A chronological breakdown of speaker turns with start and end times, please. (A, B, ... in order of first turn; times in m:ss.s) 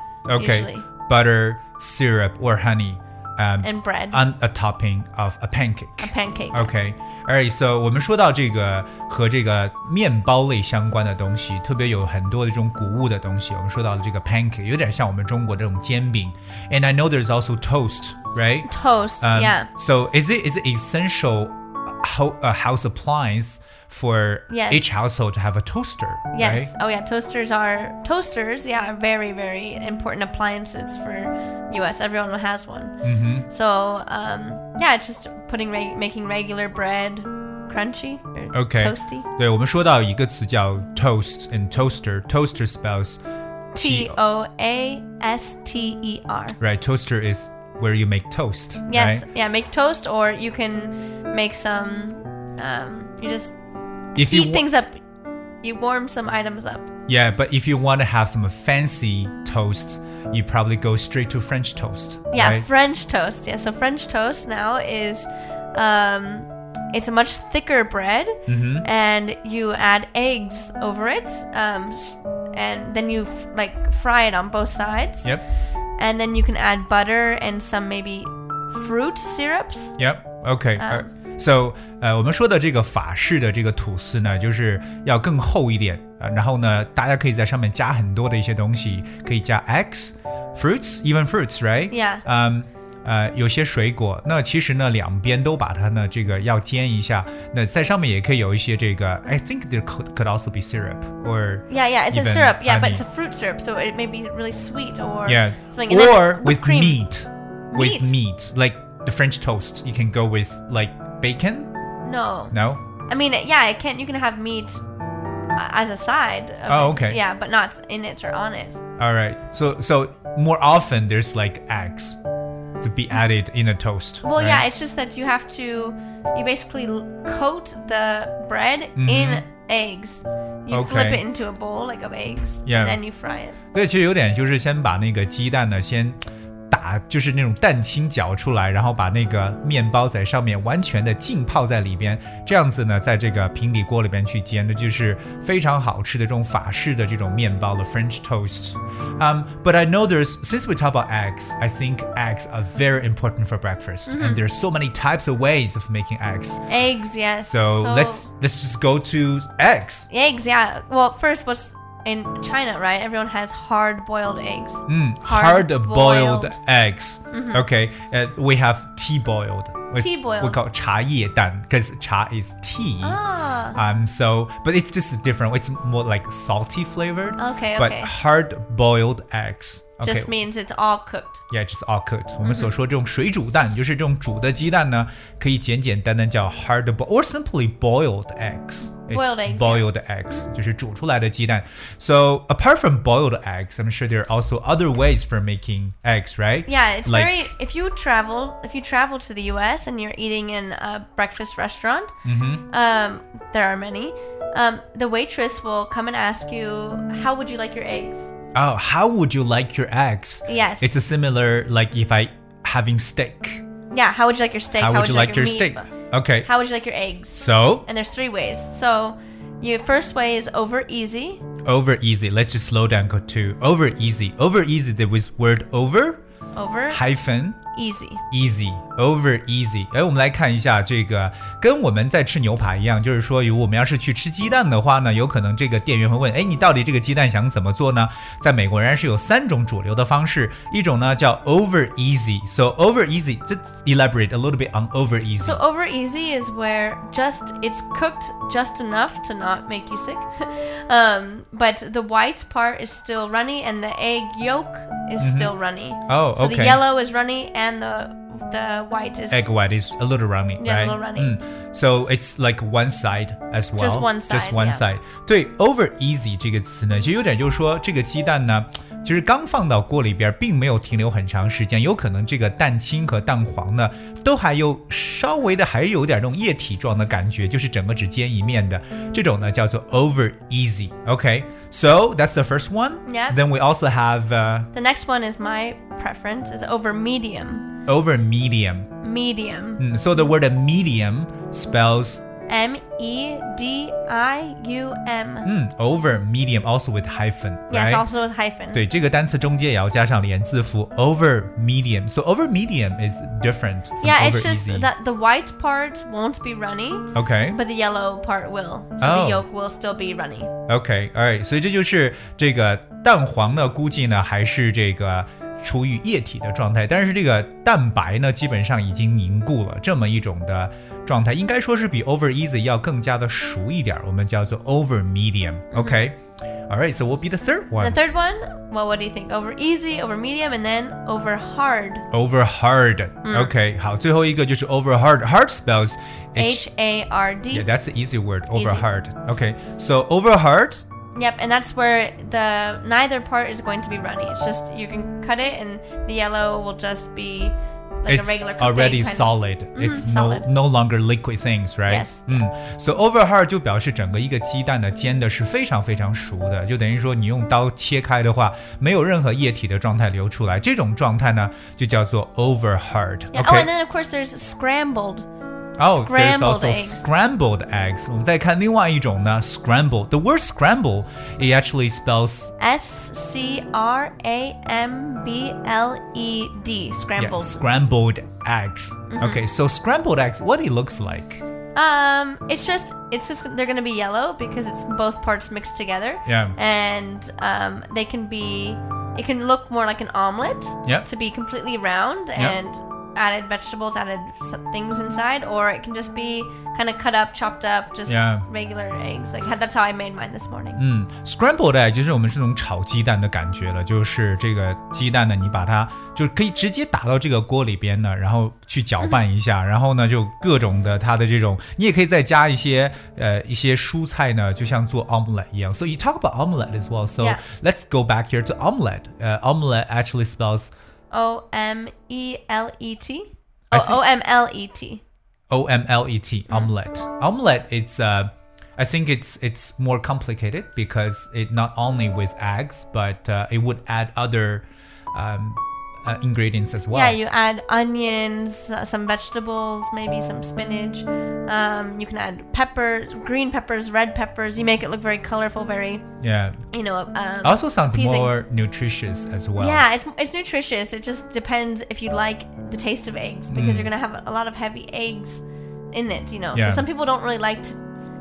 0:00.3-0:18.7 A
0:00.4-0:00.9 B
0:03.6-0:04.3 B
0:06.0-0:06.7 B
0:18.7-0:19.7 B
0:19.2-0:26.7 A
0:24.5-0:25.0 B
0:26.3-0:39.3 B
0:33.0-0:33.5 A
0:38.5-0:43.2 A
0:43.7-0:46.6 B
0:43.8-0:44.2 A
0:46.6-0:49.2 A
0:48.9-0:53.5 B
0:54.2-0:55.0 B
0:54.2-0:54.6 A
0:55.6-0:56.9 B
0:57.1-1:02.7 A
1:02.3-1:15.3 B
1:08.5-1:08.9 A
1:16.0-1:20.0 B
1:20.0-1:43.0 A
1:20.8-1:21.1 B
1:31.9-1:32.2 B
1:41.7-1:47.0 B
1:45.2-1:51.7 A
1:47.7-1:48.2 B
1:52.0-1:52.6 B
1:52.5-1:52.8 A
1:53.1-1:54.8 B
1:55.6-1:58.8 B
1:56.7-1:57.2 A
1:59.0-2:02.2 A
2:02.8-2:04.6 A
2:04.2-2:13.6 B
2:09.0-2:09.4 A
2:10.7-2:11.2 A
2:12.7-2:13.0 A
2:13.7-2:16.2 A
2:16.7-2:36.6 A
2:34.1-2:34.4 B
2:36.7-2:38.2 B
2:37.4-2:40.1 A
2:40.1-2:46.6 B
2:44.9-2:53.2 A
2:47.3-2:47.6 B
2:50.0-2:50.6 B
2:53.0-2:53.8 B
2:53.8-3:00.3 A
2:57.4-2:58.1 B
3:00.0-3:01.4 B
3:01.5-3:17.5 A
3:02.4-3:02.7 B
3:09.1-3:10.5 B
3:16.7-3:22.1 B
3:22.2-3:22.6 A
3:22.7-3:28.3 B
3:28.5-3:33.6 A
3:30.5-3:30.9 B
3:33.9-3:35.9 B
3:34.8-3:36.6 A
3:36.4-3:41.4 B
3:37.4-3:37.9 A
3:41.6-3:46.2 A
3:46.5-3:47.0 B
3:46.9-3:47.6 A
3:47.7-3:48.2 B
3:48.3-4:05.6 A
4:05.4-4:19.5 B
4:15.2-4:15.5 A
4:16.1-4:16.8 A
4:19.3-4:44.7 A
4:20.6-4:21.4 B
4:23.8-4:24.8 B
4:43.1-4:43.4 B
4:44.7-4:47.7 B
4:47.9-4:48.9 A
4:49.0-4:50.3 B
4:49.8-4:52.2 A
4:52.5-4:55.5 B
4:55.4-4:58.0 A
4:57.7-4:58.8 B
4:58.7-5:04.9 A
5:04.0-5:10.5 B
5:07.2-5:07.6 A
5:09.0-5:09.4 A
5:10.7-5:26.2 A
5:25.7-5:26.0 B
5:26.7-5:28.0 A
5:27.8-5:32.0 B
5:32.1-5:36.6 A
5:33.2-5:33.5 B
5:36.4-5:37.7 B
5:37.5-5:40.8 A
5:38.5-5:38.9 B
5:41.2-5:50.5 B
5:48.1-6:03.7 A
5:51.9-5:52.4 B
6:03.3-6:05.3 B
6:05.8-6:07.1 B
6:05.8-6:12.5 A
6:12.6-6:17.6 B
6:17.2-6:21.4 A
6:19.1-6:19.4 B
6:21.8-6:40.8 B
6:26.3-6:26.6 A
6:32.4-6:32.6 A
6:38.1-6:38.4 A
6:40.8-7:00.7 A
7:01.1-7:05.0 B
7:03.7-7:04.0 A
7:05.5-7:17.2 A
7:16.9-7:26.0 B
7:26.2-7:26.6 A
7:26.7-7:28.3 B
7:27.4-7:29.8 A
7:29.6-7:37.8 B
7:33.5-7:33.9 A
7:36.5-7:36.9 A